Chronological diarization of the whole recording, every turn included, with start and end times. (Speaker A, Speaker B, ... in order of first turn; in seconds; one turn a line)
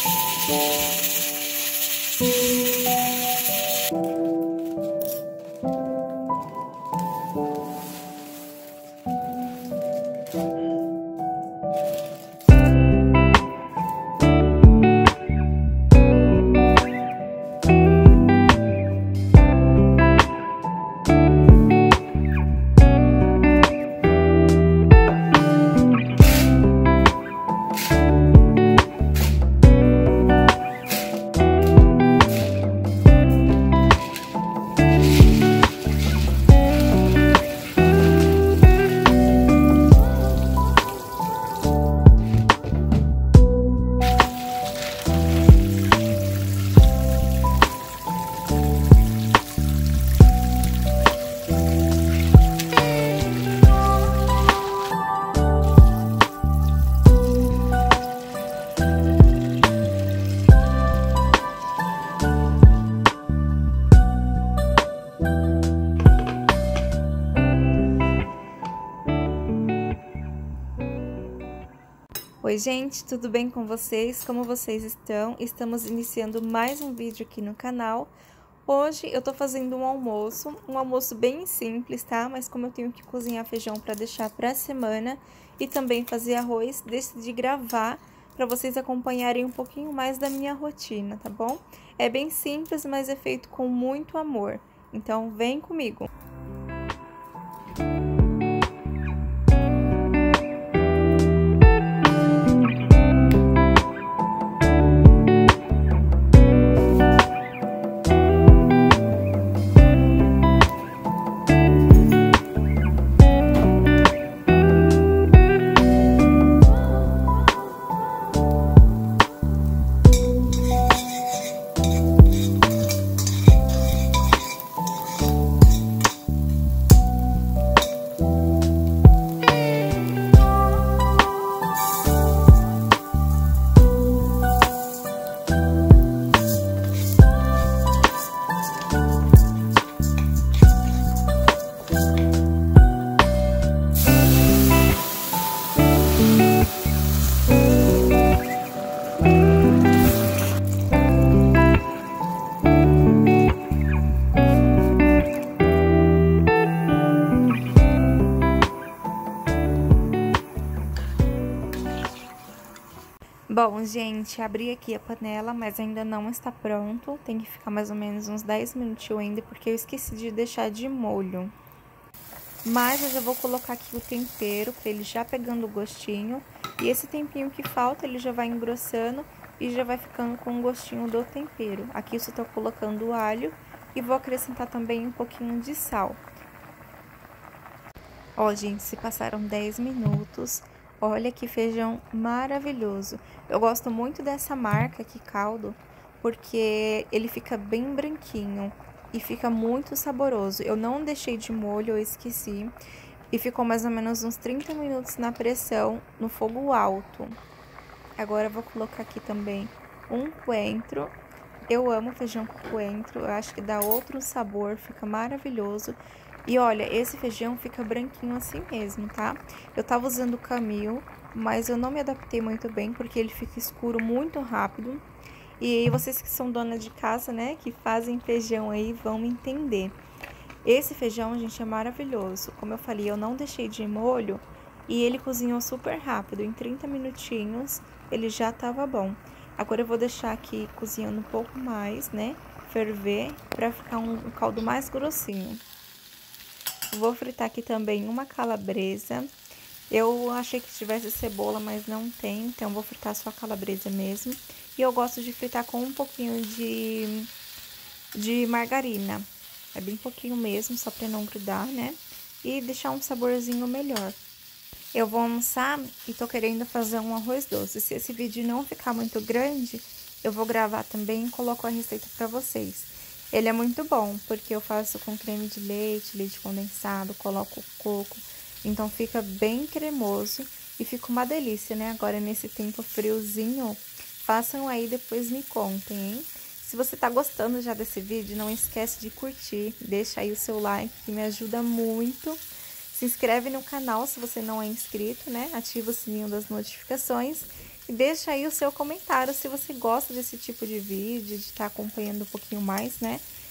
Speaker A: 72.4-78.1
Speaker A: 78.7-96.1
Speaker A: 163.5-171.5
Speaker A: 172.6-186.2
Speaker A: 188.4-202.8
Speaker A: 203.3-207.4
Speaker A: 208.2-211.1
Speaker A: 211.7-225.0
Speaker A: 225.6-230.0
Speaker A: 230.6-245.6
Speaker A: 246.9-249.3
Speaker A: 249.9-257.3
Speaker A: 258.1-264.2
Speaker A: 264.9-303.2